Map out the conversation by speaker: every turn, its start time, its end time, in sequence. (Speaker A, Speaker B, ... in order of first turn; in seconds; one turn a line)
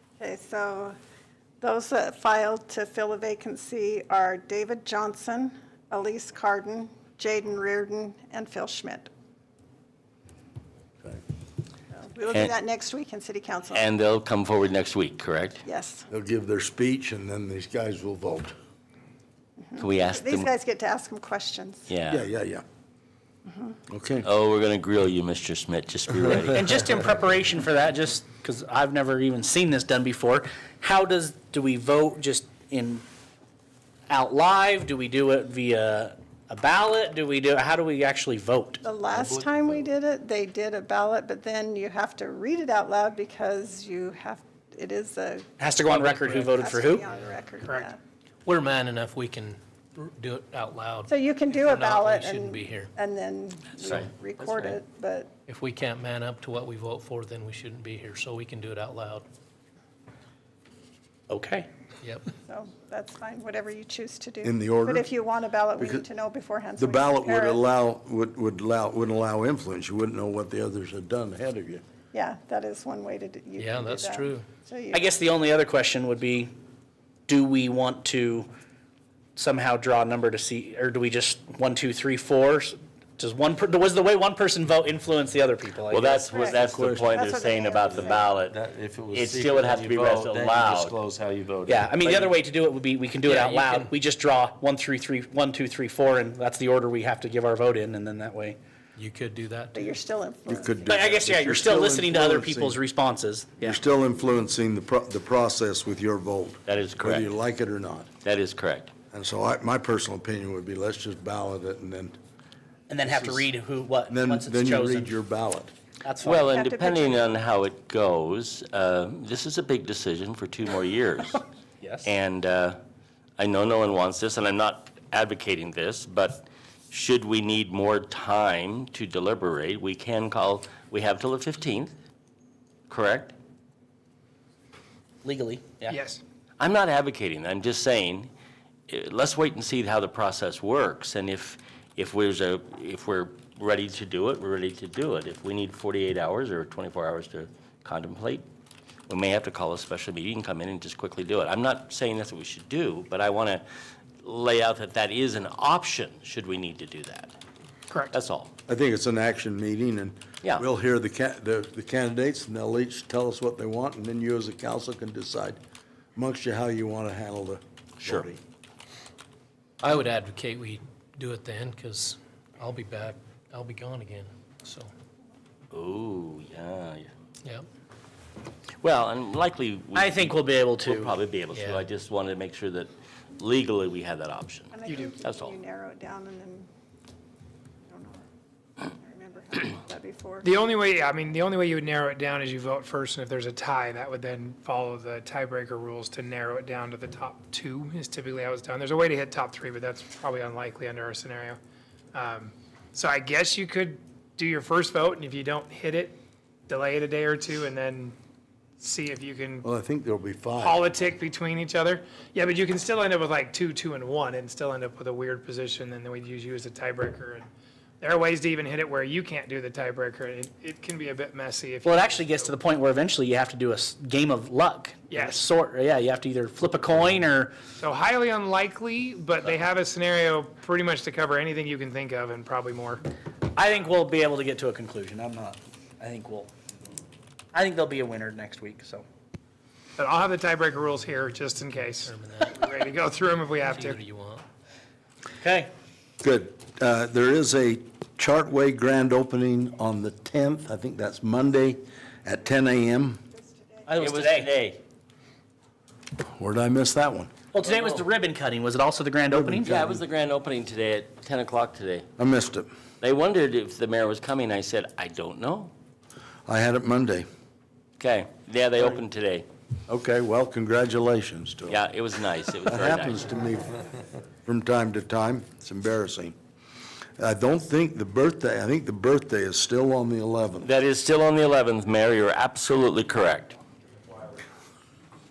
Speaker A: 0.2-1.0
Speaker A: 1.6-9.1
Speaker A: 11.9-13.9
Speaker B: 13.7-15.6
Speaker A: 15.6-16.1
Speaker C: 16.1-18.5
Speaker A: 19.6-21.9
Speaker B: 19.8-20.5
Speaker B: 21.9-22.2
Speaker C: 22.1-22.6
Speaker A: 23.5-23.8
Speaker C: 23.9-24.3
Speaker B: 24.2-26.6
Speaker D: 26.5-33.0
Speaker D: 34.1-38.8
Speaker A: 38.8-45.5
Speaker E: 39.1-39.8
Speaker D: 45.6-47.0
Speaker F: 45.9-46.5
Speaker A: 46.4-48.0
Speaker G: 47.6-47.9
Speaker F: 48.5-52.9
Speaker A: 51.1-55.3
Speaker B: 53.8-54.8
Speaker F: 55.5-59.2
Speaker D: 61.3-61.7
Speaker F: 62.0-62.3
Speaker A: 62.5-67.6
Speaker C: 64.4-65.1
Speaker C: 65.8-66.0
Speaker C: 66.8-71.8
Speaker A: 72.1-75.1
Speaker F: 73.6-74.5
Speaker D: 74.9-76.5
Speaker D: 77.3-78.5
Speaker D: 79.4-86.2
Speaker B: 85.9-91.0
Speaker A: 86.3-88.3
Speaker E: 86.6-87.2
Speaker E: 87.9-92.3
Speaker D: 91.7-98.6
Speaker F: 93.3-93.9
Speaker F: 99.0-99.9
Speaker A: 99.7-101.0
Speaker C: 100.5-102.8
Speaker D: 100.9-103.8
Speaker C: 103.6-108.1
Speaker B: 106.7-107.3
Speaker B: 108.2-108.9
Speaker C: 109.1-112.2
Speaker D: 112.9-115.2
Speaker C: 113.1-113.5
Speaker C: 114.1-115.7
Speaker D: 116.0-116.5
Speaker B: 116.2-121.5
Speaker A: 116.3-117.2
Speaker D: 121.8-122.1
Speaker B: 122.0-122.8
Speaker B: 123.4-131.9
Speaker B: 132.9-133.3
Speaker D: 135.2-136.0
Speaker G: 135.9-136.2
Speaker B: 136.6-138.3
Speaker B: 138.9-148.4
Speaker B: 149.1-153.6
Speaker B: 154.2-157.4
Speaker B: 158.1-158.5
Speaker C: 158.7-165.6
Speaker C: 166.2-168.4
Speaker F: 169.8-174.9
Speaker B: 175.7-177.1
Speaker B: 178.8-185.6
Speaker D: 179.9-181.2
Speaker F: 181.5-181.9
Speaker A: 184.7-186.7
Speaker G: 184.9-185.2
Speaker A: 187.9-188.2
Speaker A: 188.8-190.5
Speaker G: 190.4-201.6
Speaker G: 202.1-208.2
Speaker G: 208.8-209.7
Speaker C: 209.6-210.9
Speaker G: 210.6-217.5
Speaker G: 218.0-222.5
Speaker D: 221.8-227.6
Speaker G: 225.1-225.5
Speaker G: 227.8-233.0
Speaker D: 233.5-236.5
Speaker D: 237.5-239.1
Speaker G: 240.0-244.0
Speaker F: 241.7-242.8
Speaker F: 243.5-244.4
Speaker D: 245.4-245.7
Speaker C: 246.2-253.2
Speaker D: 253.9-254.5
Speaker B: 254.0-254.8
Speaker C: 256.4-257.3
Speaker D: 257.5-259.9
Speaker C: 259.3-260.0
Speaker B: 259.6-262.1
Speaker C: 262.2-262.7
Speaker B: 263.0-265.7
Speaker C: 266.5-267.3
Speaker B: 268.0-269.5
Speaker C: 269.9-271.8
Speaker B: 271.7-273.2
Speaker C: 272.7-273.8
Speaker C: 274.4-276.4
Speaker C: 277.2-280.7
Speaker B: 280.6-283.6